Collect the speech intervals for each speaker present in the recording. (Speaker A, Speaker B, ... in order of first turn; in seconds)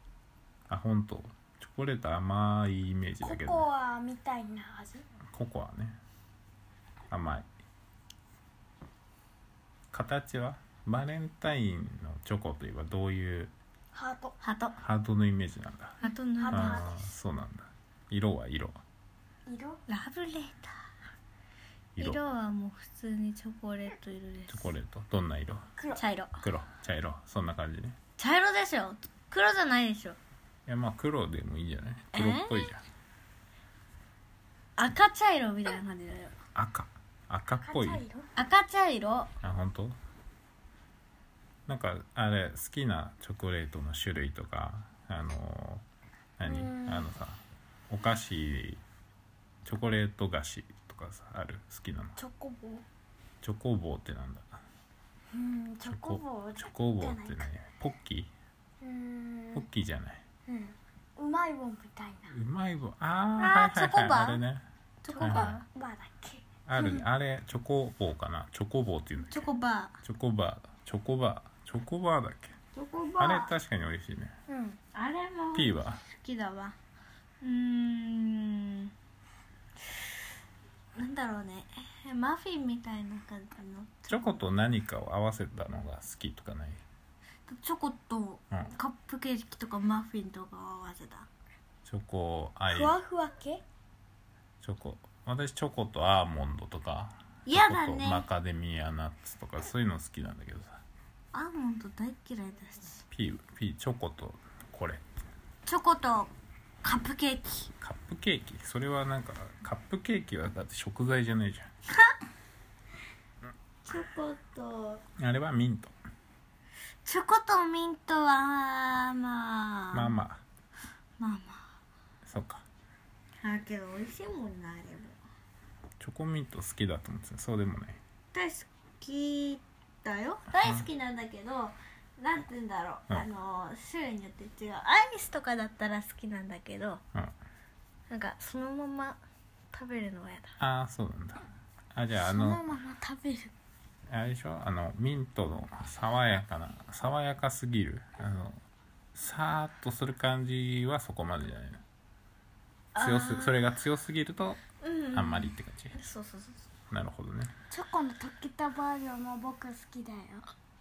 Speaker A: 0.7-3.7, 5.3-6.0, 7.1-7.5, 9.9-13.5, 14.8-16.0, 16.5-18.8, 22.0-22.2, 24.5-25.7, 26.4-28.0, 30.7-32.8, 36.5-38.0, 39.4-40.0, 41.7-45.9, 46.4-48.8, 49.6-52.2, 53.4-54.6, 55.9-58.3, 59.5-60.2, 62.3-65.6, 66.7-69.5, 70.0-72.5, 73.2-74.4, 75.5-76.0, 84.1-86.8, 91.8-93.0, 94.6-100.8, 103.1-105.0, 107.8-111.7, 115.2-115.9, 119.9-120.4, 122.2-122.6, 126.0-128.0, 130.6-130.9, 140.6-142.6, 144.1-148.6, 149.2-151.8, 153.0-155.9, 156.9-157.5
Speaker B: 3.2-5.0, 13.9-14.3, 16.4-17.0, 19.5-19.8, 25.8-26.0, 37.6-38.3, 46.5-47.1, 52.2-52.9, 55.3-57.4, 58.8-59.7, 60.5-62.3, 65.2-67.0, 74.5-74.8, 92.7-93.6, 142.2-143.5, 157.7-160.4
Speaker C: 14.4-14.8, 16.0-16.9, 19.9-20.9, 22.0-24.7, 26.0-26.4, 28.2-30.2, 32.1-32.7, 34.8-36.4, 38.4-39.3, 63.4-64.4, 65.0-65.7, 69.3-70.0, 72.7-73.5, 74.9-76.8, 77.4-78.9, 81.0-84.4, 87.5-91.3, 97.5-98.3, 101.3-103.0, 105.7-106.3, 106.8-107.7, 113.8-115.0, 117.0-120.1, 121.2-121.7, 123.4-125.2, 128.3-137.0, 138.1-139.2, 139.7-140.5, 152.9-153.8, 154.8-156.7